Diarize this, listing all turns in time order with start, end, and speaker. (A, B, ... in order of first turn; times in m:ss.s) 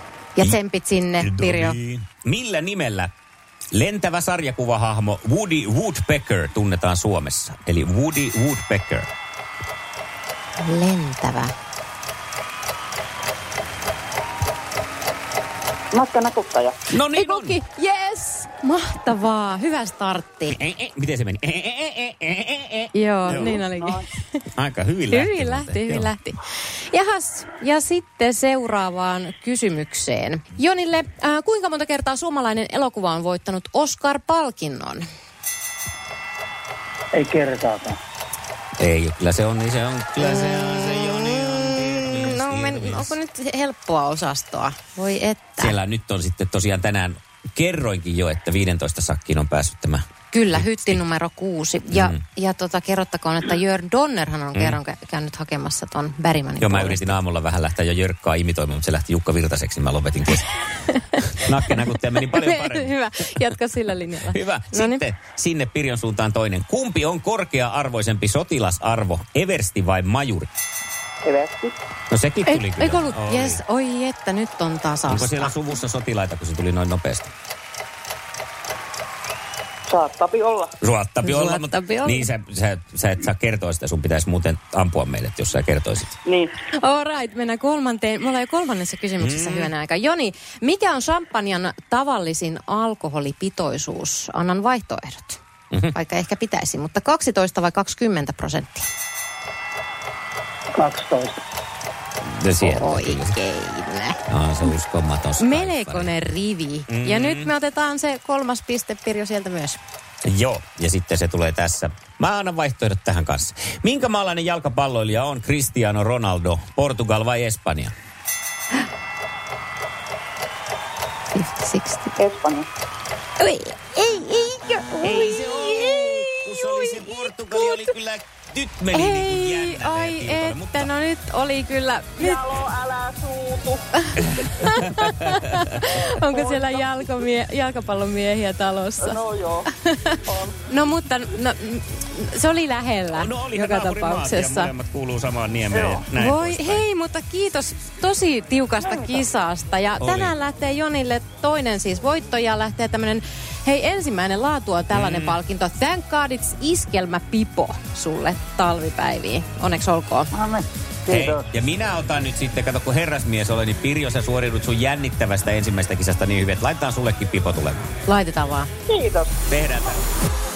0:00.4-0:01.8 A
0:01.2-0:03.1 B
0:03.7-0:09.1 B
0:10.6-0:11.5 A
0:15.9-0:16.8 C
0:16.9-0:17.6 B
0:17.1-0:20.6 A
0:20.5-0:23.6 B
0:22.9-0:24.4 A
0:23.8-0:24.0 C
0:24.5-0:26.1 B
0:25.1-0:26.4 A
0:26.9-0:35.1 A
0:37.1-0:38.0 D
0:38.8-0:43.1 B
0:40.2-0:45.8 A
0:45.6-0:51.0 B
0:50.3-0:57.2 A
0:51.9-0:52.2 B
0:54.5-0:54.8 B
0:56.6-1:00.5 B
1:00.9-1:01.7 A
1:01.2-1:03.5 B
1:02.3-1:05.0 A
1:04.2-1:10.5 B
1:11.2-1:11.8 C
1:12.1-1:13.6 B
1:12.5-1:15.6 A
1:15.1-1:17.3 B
1:19.9-1:20.8 C
1:20.8-1:26.1 B
1:21.2-1:22.3 A
1:26.2-1:26.6 C
1:26.7-1:35.4 A
1:29.2-1:29.7 B
1:35.9-1:38.9 A
1:40.7-1:41.4 D
1:42.2-1:43.4 B
1:42.6-1:44.7 A
1:44.3-1:46.1 B
1:45.4-1:49.8 A
1:46.9-1:47.5 B
1:50.2-1:57.9 B
2:01.3-2:02.2 A
2:02.2-2:02.7 C
2:03.4-2:07.9 A
2:05.0-2:10.9 B
2:08.9-2:12.4 A
2:12.2-2:13.9 C
2:14.0-2:19.2 A
2:14.4-2:15.1 B
2:16.4-2:16.9 C
2:19.0-2:19.7 C
2:19.7-2:24.7 A
2:20.3-2:20.6 C
2:23.1-2:26.8 B
2:25.7-2:26.0 C
2:26.1-2:40.3 A
2:28.9-2:29.2 C
2:30.0-2:30.3 B
2:34.9-2:35.4 B
2:40.3-2:41.5 D
2:41.1-2:47.9 B
2:48.0-2:48.7 A
2:48.9-2:49.4 C
2:49.5-2:50.0 B